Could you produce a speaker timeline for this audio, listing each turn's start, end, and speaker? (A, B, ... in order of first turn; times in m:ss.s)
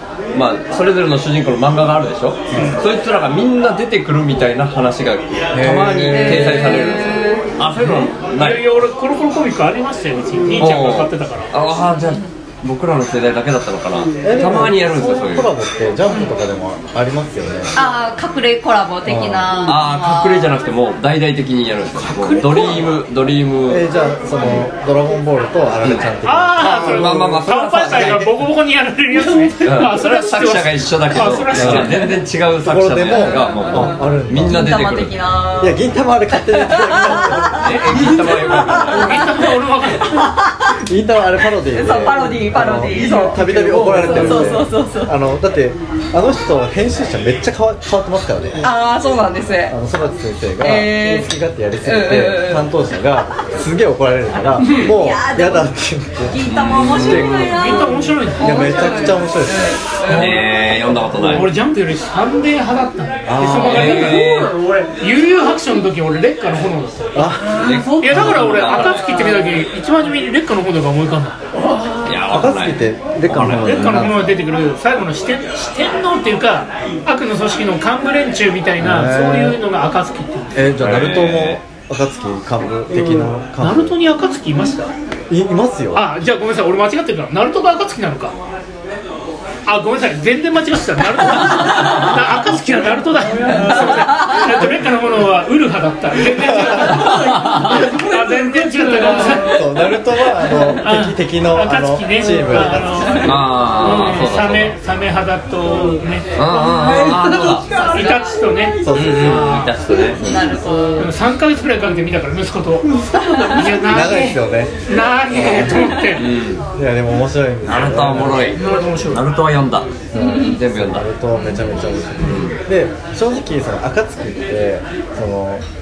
0:00.3-0:08.8 A
0:02.5-0:02.8 B
0:02.5-0:02.8 C
0:05.6-0:06.2 B
0:05.6-0:06.7 C
0:06.1-0:07.5 D
0:08.2-0:11.5 C
0:10.3-0:10.7 E
0:10.6-0:15.5 A
0:11.8-0:12.3 D
0:14.2-0:17.7 B
0:16.1-0:16.3 D
0:17.7-0:20.5 D
0:19.1-0:19.6 B
0:19.7-0:23.8 A
0:22.0-0:22.9 E
0:23.7-0:27.3 B
0:26.2-0:32.1 C
0:26.8-0:28.4 A
0:29.1-0:29.9 E
0:29.6-0:35.1 A
0:31.6-0:32.0 B
0:32.6-0:34.8 B
0:33.1-0:40.8 D
0:35.6-0:37.8 B
0:37.6-0:39.3 A
0:37.9-0:39.2 E
0:38.9-0:40.2 C
0:40.7-0:48.7 B
0:41.6-0:45.1 D
0:42.7-0:44.7 E
0:48.6-0:49.8 D
0:49.6-0:57.5 B
0:50.6-0:51.3 D
0:51.8-0:53.4 D
0:54.5-0:55.7 D
0:54.6-0:54.9 E
0:56.3-1:00.4 D
0:56.4-0:57.6 A
0:57.5-0:59.1 C
0:58.4-0:59.8 B
1:00.0-1:00.4 C
1:00.1-1:01.5 A
1:01.2-1:04.2 C
1:03.3-1:03.9 B
1:03.6-1:04.5 A
1:03.6-1:05.0 E
1:05.0-1:07.3 C
1:07.1-1:07.6 B
1:07.2-1:09.6 E
1:07.6-1:09.0 A
1:08.0-1:11.4 C
1:11.5-1:12.3 E
1:12.0-1:13.9 A
1:12.3-1:14.4 B
1:13.6-1:20.6 C
1:18.8-1:19.6 B
1:20.5-1:24.0 B
1:20.8-1:21.6 A
1:22.9-1:23.3 E
1:23.6-1:24.9 C
1:25.3-1:26.1 B
1:25.9-1:28.4 C
1:29.6-1:39.6 C
1:31.5-1:32.1 E
1:32.8-1:34.7 E
1:36.4-1:40.0 E
1:37.2-1:37.6 A
1:39.4-1:43.4 B
1:40.5-1:46.3 C
1:42.3-1:43.1 E
1:43.0-1:43.5 D
1:43.2-1:44.8 A
1:45.6-1:49.3 E
1:46.4-1:47.6 A
1:47.4-1:48.4 D
1:47.8-1:49.8 C
1:48.8-1:50.6 B
1:49.0-1:50.2 A
1:49.9-1:51.1 E
1:50.2-1:51.1 D
1:51.0-1:52.9 C
1:52.8-1:53.9 E
1:53.5-1:56.3 C
1:53.9-1:56.0 B
1:56.2-1:56.6 A
1:56.8-1:58.6 B
1:57.6-1:59.9 A
1:58.5-1:59.2 C
2:00.1-2:05.6 B
2:00.1-2:00.6 D
2:00.5-2:01.1 A
2:01.3-2:02.0 D
2:02.2-2:02.6 A